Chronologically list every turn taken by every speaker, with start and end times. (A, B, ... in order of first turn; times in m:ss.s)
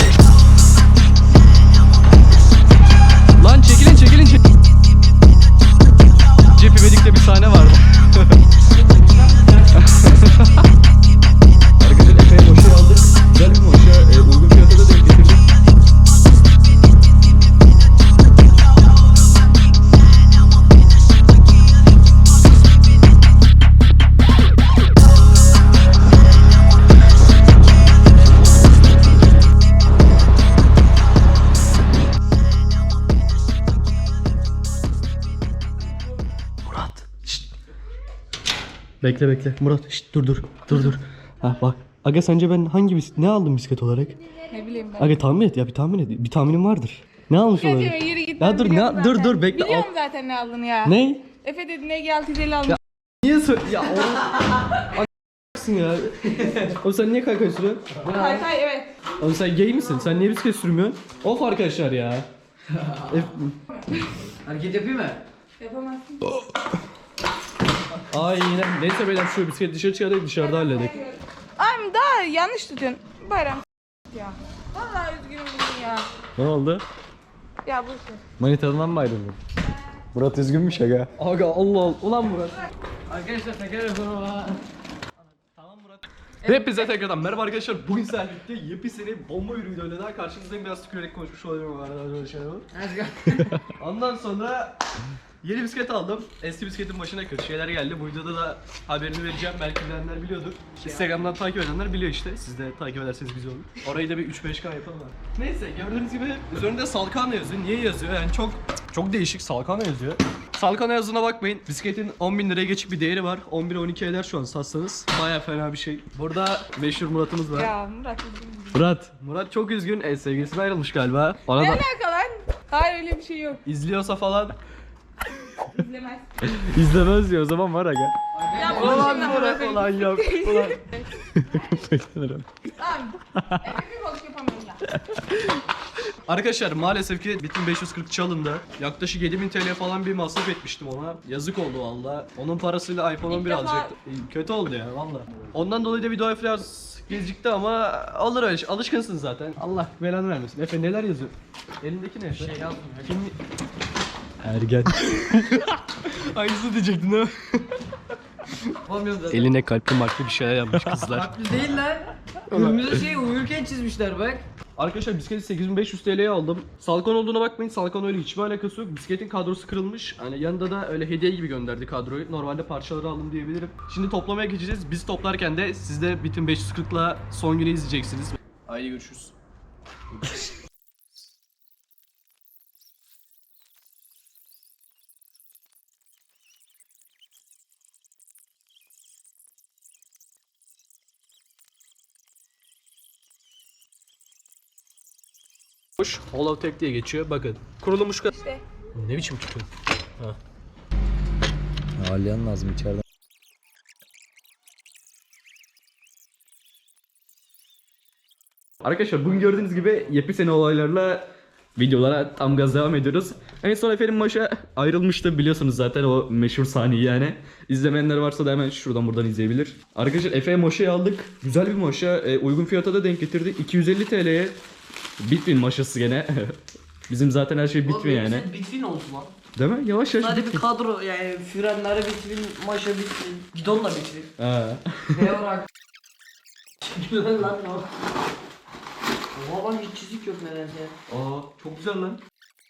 0:03.4-0:04.4 A
0:06.5-0:08.4 A
0:09.1-0:09.8 B
0:09.7-0:10.7 A
0:11.8-0:15.5 A
0:36.6-0:37.5 A
0:39.0-0:44.1 A
0:44.5-0:45.2 C
0:45.0-0:49.9 A
0:47.6-0:52.8 C
0:50.8-0:51.2 A
0:52.7-0:57.9 A
0:58.0-0:58.5 B
0:58.0-0:58.9 C
0:59.2-1:02.3 A
1:03.0-1:03.6 A
1:04.4-1:05.2 B
1:05.6-1:06.3 C
1:08.1-1:11.0 A
1:10.5-1:16.0 C
1:16.4-1:16.8 D
1:17.6-1:18.2 C
1:18.4-1:19.4 D
1:20.1-1:21.1 D
1:21.2-1:22.6 A
1:23.1-1:24.6 B
1:25.5-1:32.7 A
1:26.4-1:26.9 C
1:32.7-1:33.5 B
1:33.3-1:34.8 A
1:35.4-1:57.7 A
1:57.5-1:58.8 C
1:58.7-2:01.8 A
2:01.6-2:03.6 C
2:03.6-2:04.6 A
2:05.6-2:06.3 C
2:06.4-2:08.1 D
2:08.4-2:09.4 B
2:08.5-2:11.0 C
2:08.7-2:10.8 A
2:11.4-2:12.4 D
2:12.8-2:14.8 C
2:13.4-2:13.8 D
2:16.2-2:32.5 A
2:23.2-2:23.9 C
2:32.4-2:33.2 B
2:33.0-2:33.3 A
2:34.4-2:37.7 A
2:38.8-2:39.5 B
2:39.3-2:41.3 A
2:41.0-2:44.4 B
2:42.5-2:43.0 A
2:44.8-2:59.3 A
3:16.0-3:18.3 A
3:18.3-3:18.6 C
3:18.9-3:19.7 A
3:22.0-3:23.0 D
3:28.8-3:44.6 A
3:45.2-3:48.5 A
3:47.8-3:49.3 B
3:49.6-3:50.7 A
3:50.2-3:54.3 B
3:54.4-3:55.3 A
3:55.2-3:55.6 B
3:56.9-3:57.9 B
3:59.3-4:00.9 B
4:01.1-4:02.2 A